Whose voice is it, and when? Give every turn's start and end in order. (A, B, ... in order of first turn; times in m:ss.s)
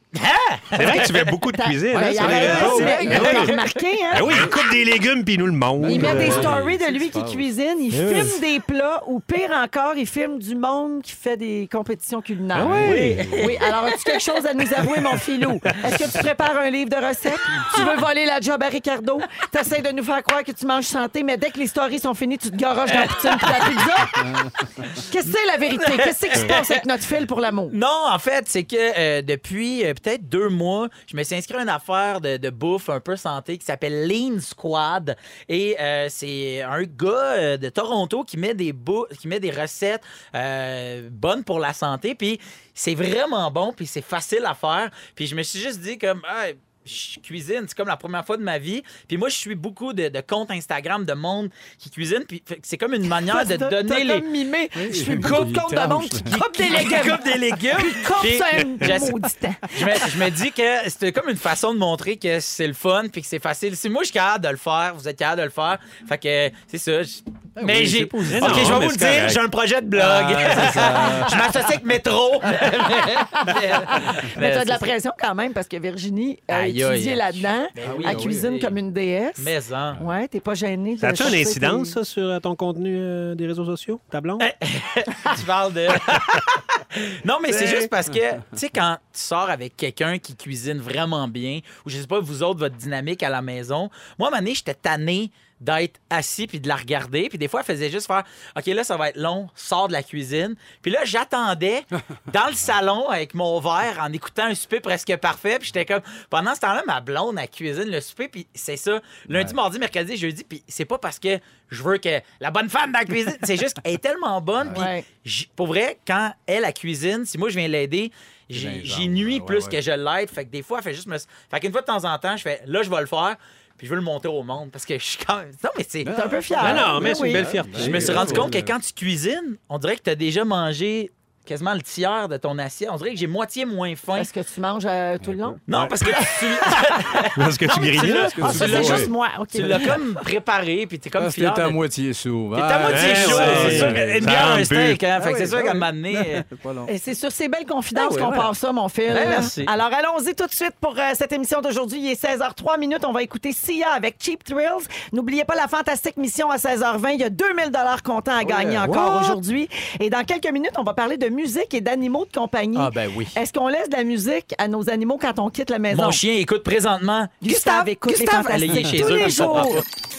0:00.1-0:01.4 A
0:00.8-0:03.5 B
0:00.8-0:04.5 C
0:02.1-0:03.7 A
0:02.4-0:02.8 D
0:04.1-0:06.6 B
0:05.8-0:07.5 D
0:05.8-0:24.4 C
0:06.0-0:06.5 A
0:07.9-0:08.4 B
0:12.5-0:13.4 B
0:12.6-0:13.6 D
0:12.8-0:14.2 A
0:14.8-0:15.2 A
0:17.7-0:17.9 A
0:22.9-0:23.8 A
0:24.2-0:24.8 D
0:24.9-0:27.8 C
0:25.9-0:26.8 A
0:27.7-0:54.2 A
0:53.1-1:00.2 C
0:54.7-0:56.4 D
0:55.2-0:55.5 A
0:56.3-1:14.9 A
1:07.6-1:09.4 D
1:08.3-1:09.4 B
1:10.0-1:11.6 D
1:13.2-1:22.0 C
1:16.5-1:18.8 A
1:17.8-1:18.5 D
1:19.4-1:20.0 A
1:21.0-1:24.5 B
1:24.4-2:06.7 A
1:27.5-1:27.9 B
1:49.3-1:49.6 D
1:54.6-1:54.9 D
1:54.7-1:55.1 C
1:58.5-1:59.8 D
2:06.0-2:08.8 D
2:06.1-2:07.5 C
2:06.6-2:08.5 B
2:07.7-2:14.3 A
2:14.2-2:17.2 C
2:15.2-2:15.6 D
2:15.7-2:15.9 B
2:15.7-2:21.8 A
2:17.4-2:18.9 B
2:18.3-2:19.1 D
2:18.4-2:20.0 C
2:21.2-2:24.6 D
2:22.6-2:26.4 A
2:22.9-2:25.0 B
2:25.1-2:26.9 D
2:26.9-2:46.2 C
2:28.0-2:28.5 A
2:29.1-2:29.7 A
2:38.4-2:39.4 A
2:42.8-2:43.4 A
2:45.9-2:49.8 A
2:47.4-2:49.8 C